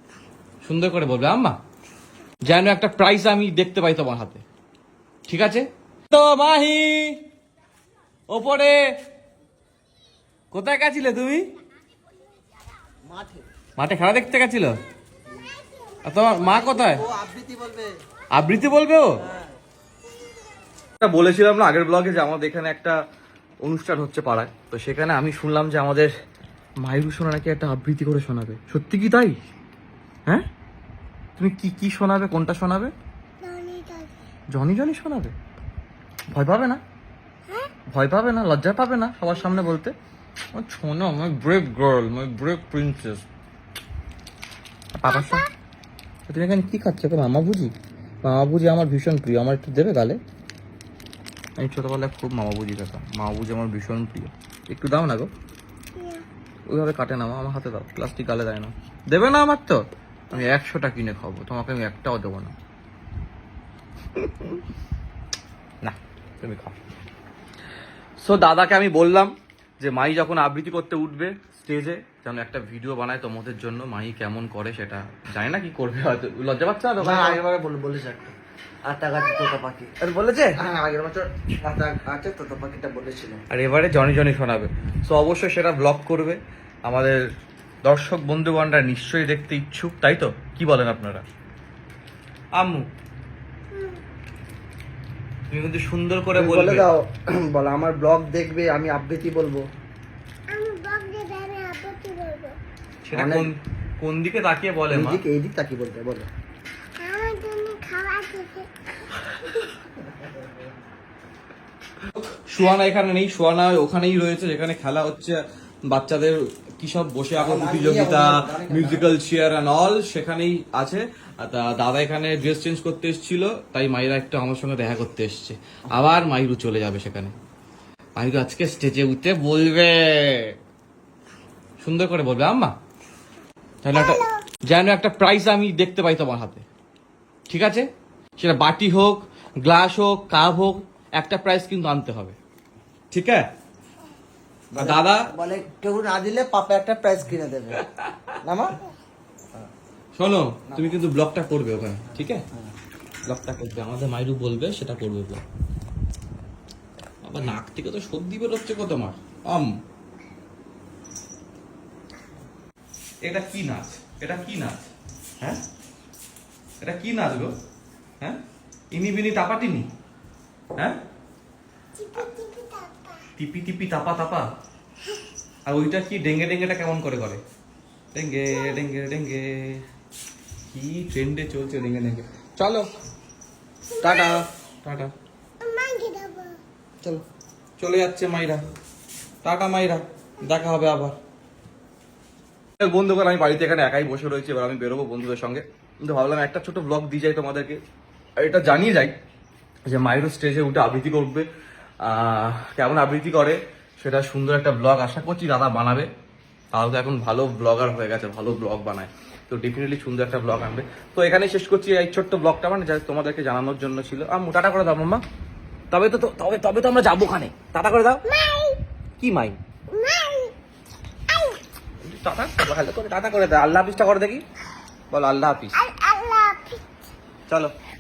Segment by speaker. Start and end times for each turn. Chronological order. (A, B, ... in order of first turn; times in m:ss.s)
0:00.6-0:01.6 A
0:02.5-0:04.4 A
0:05.3-0:07.2 A
0:08.3-0:08.8 A
0:10.5-0:11.5 A
0:13.1-0:13.5 B
0:13.8-0:14.8 A
0:15.6-0:16.2 C
0:16.0-0:17.1 A
0:16.4-0:17.9 B
0:18.4-0:19.2 A
0:21.0-0:23.0 A
0:23.6-0:26.1 A
0:26.8-0:29.4 A
0:31.4-0:32.9 A
0:33.4-0:34.2 C
0:34.5-0:35.3 A
0:36.3-0:36.8 A
0:37.9-0:39.9 A
0:40.5-0:43.2 A
0:45.0-0:45.5 A
0:45.1-0:45.5 C
0:46.3-0:47.7 A
0:48.2-0:50.2 A
0:51.6-0:55.3 A
0:56.0-0:56.2 C
0:56.7-0:59.8 A
1:00.3-1:02.5 A
1:04.2-1:04.6 A
1:05.8-1:06.8 A
1:08.2-1:17.4 A
1:17.0-1:18.4 B
1:18.9-1:19.8 B
1:19.2-1:20.6 A
1:20.6-1:23.4 B
1:23.5-1:27.2 A
1:27.8-1:31.2 A
1:32.6-1:32.9 A
1:33.7-1:34.0 C
1:35.5-1:36.9 A
1:36.4-1:39.6 B
1:40.5-1:42.6 C
1:43.0-1:45.2 A
1:43.1-1:43.5 B
1:44.9-1:46.3 B
1:47.0-1:48.7 C
1:52.4-2:07.3 A
1:57.4-1:59.1 B
2:08.2-2:10.6 A
2:11.8-2:12.7 A
2:13.8-2:16.6 A
2:13.9-2:14.4 C
2:17.5-2:17.9 A
2:18.4-2:22.4 A
2:23.1-2:23.5 A
2:24.7-2:25.3 A
2:24.7-2:27.8 B
2:27.8-2:28.4 A
2:28.4-2:28.8 B
2:30.2-2:32.4 A
2:33.3-2:35.4 A
2:37.2-2:39.7 A
2:43.3-2:44.9 A
2:46.8-2:47.6 A
2:48.9-2:49.9 A
2:52.0-2:53.2 C
2:53.4-2:54.5 A
2:55.7-2:57.4 A
2:58.1-2:59.8 A
3:00.7-3:02.9 A
3:03.9-3:04.4 C
3:04.0-3:05.1 A
3:05.6-3:06.6 C
3:07.8-3:08.6 A
3:09.4-3:11.2 A
3:12.8-3:17.8 A
3:18.4-3:19.1 A
3:19.9-3:21.5 A
3:22.0-3:26.1 A
3:26.7-3:35.2 A
3:35.9-3:38.3 A
3:38.3-3:38.8 C
3:39.2-3:39.6 A
3:39.9-3:40.5 C
3:41.3-3:41.6 C
3:42.0-3:44.4 A
3:45.1-3:45.8 A
3:45.8-3:46.8 C
3:47.5-3:47.7 A